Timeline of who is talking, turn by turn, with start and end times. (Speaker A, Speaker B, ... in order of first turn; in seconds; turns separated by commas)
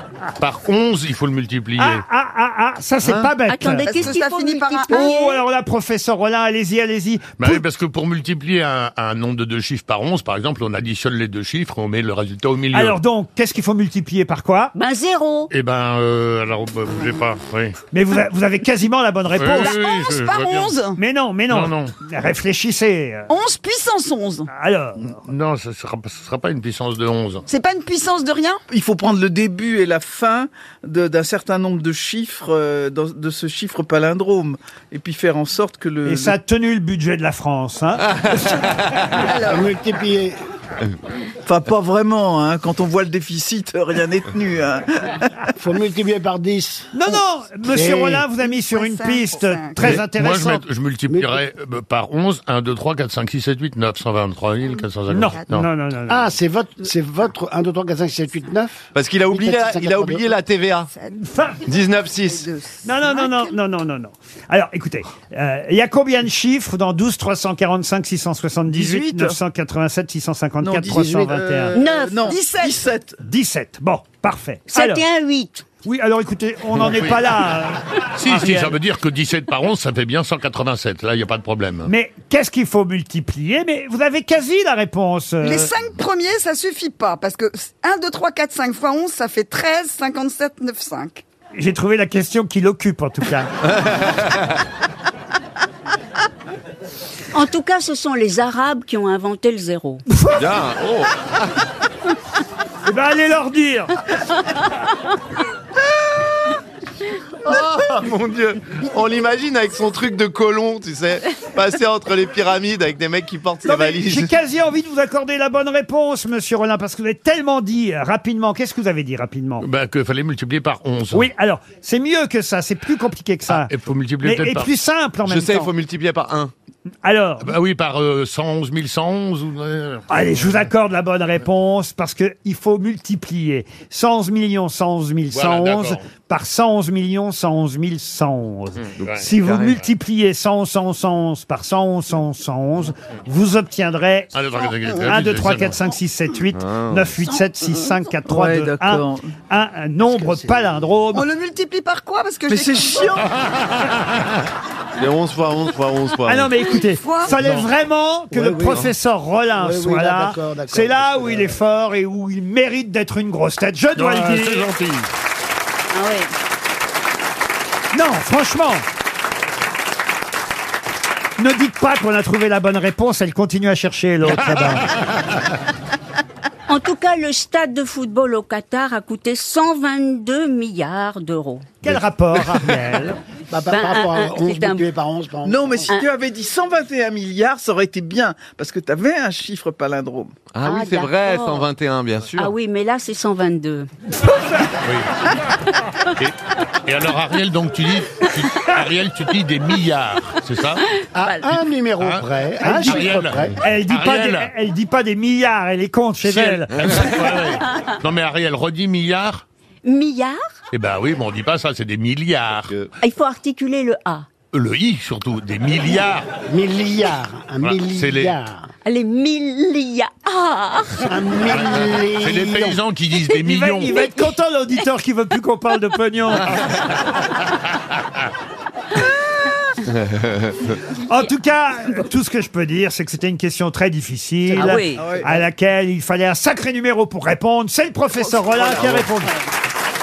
Speaker A: 0.4-2.0, Speaker B: 1.8-3.9, Speaker C: 3.5-5.4, Speaker D: 3.9-5.2, Speaker B: 4.9-7.6, Speaker A: 7.4-13.0, Speaker B: 12.7-14.7, Speaker C: 14.8-15.5, Speaker A: 15.5-17.8, Speaker B: 17.9-19.8, Speaker A: 19.4-20.7, Speaker D: 19.5-21.0, Speaker B: 21.0-23.3, Speaker A: 21.5-21.9, Speaker D: 23.3-24.5, Speaker B: 24.5-25.2, Speaker A: 25.2-27.4, Speaker D: 27.5-28.6, Speaker E: 28.7-36.4, Speaker B: 36.0-38.6, Speaker D: 39.1-39.7, Speaker F: 39.4-40.4, Speaker E: 41.5-45.5, Speaker F: 45.6-47.0, Speaker B: 46.9-50.6, Speaker F: 47.6-48.3, Speaker D: 48.4-50.0, Speaker A: 49.8-55.7, Speaker F: 51.1-51.4, Speaker B: 55.1-56.3, Speaker F: 56.1-60.3, Speaker G: 59.0-60.9, Speaker D: 60.9-61.3, Speaker B: 61.2-61.6, Speaker G: 61.6-62.5, Speaker D: 62.3-63.3, Speaker B: 62.8-71.8, Speaker E: 68.7-69.4, Speaker E: 70.6-73.2, Speaker F: 70.9-71.3, Speaker C: 71.7-72.3, Speaker D: 72.3-72.8, Speaker B: 73.2-75.0, Speaker C: 74.7-75.7, Speaker B: 75.8-78.8, Speaker A: 76.8-77.3, Speaker A: 78.0-81.9, Speaker B: 81.9-85.7, Speaker D: 85.4-91.2, Speaker B: 91.5-93.5, Speaker G: 93.7-94.4, Speaker C: 97.3-100.0, Speaker B: 100.1-100.4, Speaker G: 100.3-101.3, Speaker B: 102.8-104.0, Speaker G: 107.5-114.3, Speaker B: 113.7-119.7, Speaker A: 119.6-121.3, Speaker B: 121.1-123.7, Speaker A: 123.5-124.7, Speaker B: 124.2-125.7, Speaker G: 125.2-126.5, Speaker B: 127.0-127.5, Speaker A: 127.4-130.1, Speaker B: 130.1-144.3, Speaker A: 135.3-136.1, Speaker A: 139.0-139.3, Speaker G: 139.0-139.7, Speaker A: 144.3-145.8, Speaker B: 145.1-151.3, Speaker G: 146.6-147.1, Speaker E: 148.3-149.3, Speaker F: 150.0-150.9, Speaker D: 151.1-153.1, Speaker E: 152.5-153.3, Speaker G: 155.0-156.5, Speaker B: 156.3-164.7, Speaker D: 156.7-157.3, Speaker F: 158.3-158.9, Speaker F: 159.6-161.6, Speaker A: 164.0-165.1, Speaker C: 165.9-166.3, Speaker B: 167.9-168.9, Speaker B: 171.4-174.9, Speaker C: 176.7-181.8, Speaker B: 181.8-183.2, Speaker F: 183.5-185.9, Speaker C: 183.7-184.9, Speaker E: 185.4-190.4, Speaker G: 190.5-192.5, Speaker C: 190.6-191.7, Speaker C: 192.4-193.9, Speaker A: 194.8-195.1, Speaker A: 196.2-200.8, Speaker F: 201.1-203.6, Speaker A: 202.0-202.2, Speaker B: 202.6-207.0, Speaker A: 202.8-204.5, Speaker A: 206.2-209.4, Speaker C: 209.8-210.4, Speaker A: 210.7-212.8, Speaker G: 212.7-212.9, Speaker C: 213.0-214.3, Speaker A: 214.5-216.3, Speaker F: 216.5-218.7, Speaker A: 217.6-218.3, Speaker C: 218.8-221.1, Speaker F: 221.1-222.8, Speaker A: 221.5-224.0, Speaker B: 223.4-226.6, Speaker G: 230.0-230.6, Speaker B: 231.1-239.3, Speaker F: 234.5-234.9, Speaker C: 234.6-235.2, Speaker E: 235.0-235.4, Speaker G: 238.6-239.1